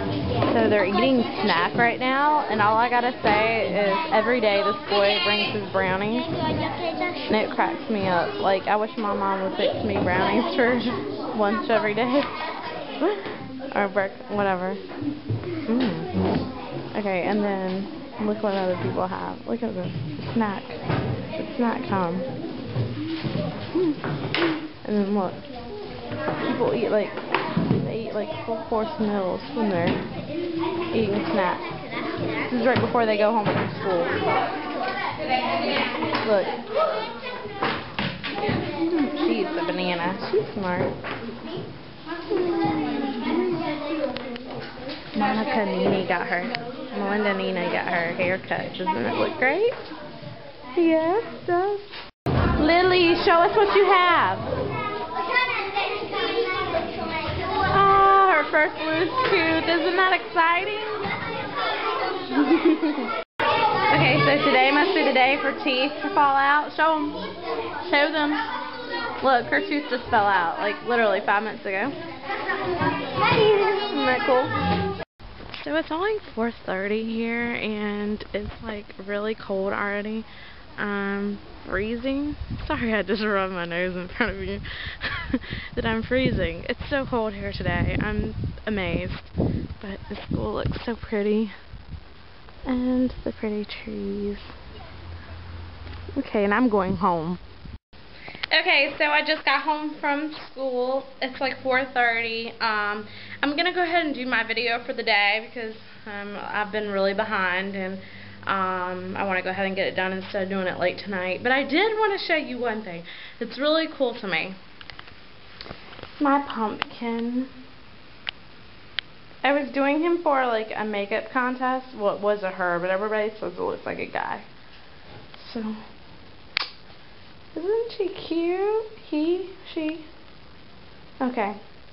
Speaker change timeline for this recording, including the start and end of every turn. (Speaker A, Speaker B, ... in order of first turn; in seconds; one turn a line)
Speaker A: 0.4-6.3
Speaker A: 7.3-12.4
Speaker A: 13.0-14.8
Speaker A: 15.7-16.2
Speaker A: 16.9-20.8
Speaker A: 21.3-22.3
Speaker A: 24.8-25.4
Speaker A: 26.4-30.0
Speaker A: 30.9-31.7
Speaker A: 32.3-34.2
Speaker A: 36.1-36.6
Speaker A: 38.7-41.0
Speaker A: 42.4-43.6
Speaker A: 45.1-49.8
Speaker A: 50.7-51.9
Speaker A: 52.6-54.5
Speaker A: 57.5-61.0
Speaker A: 62.3-63.1
Speaker A: 63.9-67.3
Speaker A: 67.8-68.4
Speaker A: 69.2-72.0
Speaker A: 73.2-74.6
Speaker A: 75.5-91.5
Speaker A: 92.7-94.5
Speaker A: 96.2-97.4
Speaker A: 98.5-114.6
Speaker A: 116.2-117.5
Speaker A: 119.4-124.5
Speaker A: 125.3-125.8
Speaker A: 127.5-130.1
Speaker A: 131.2-131.6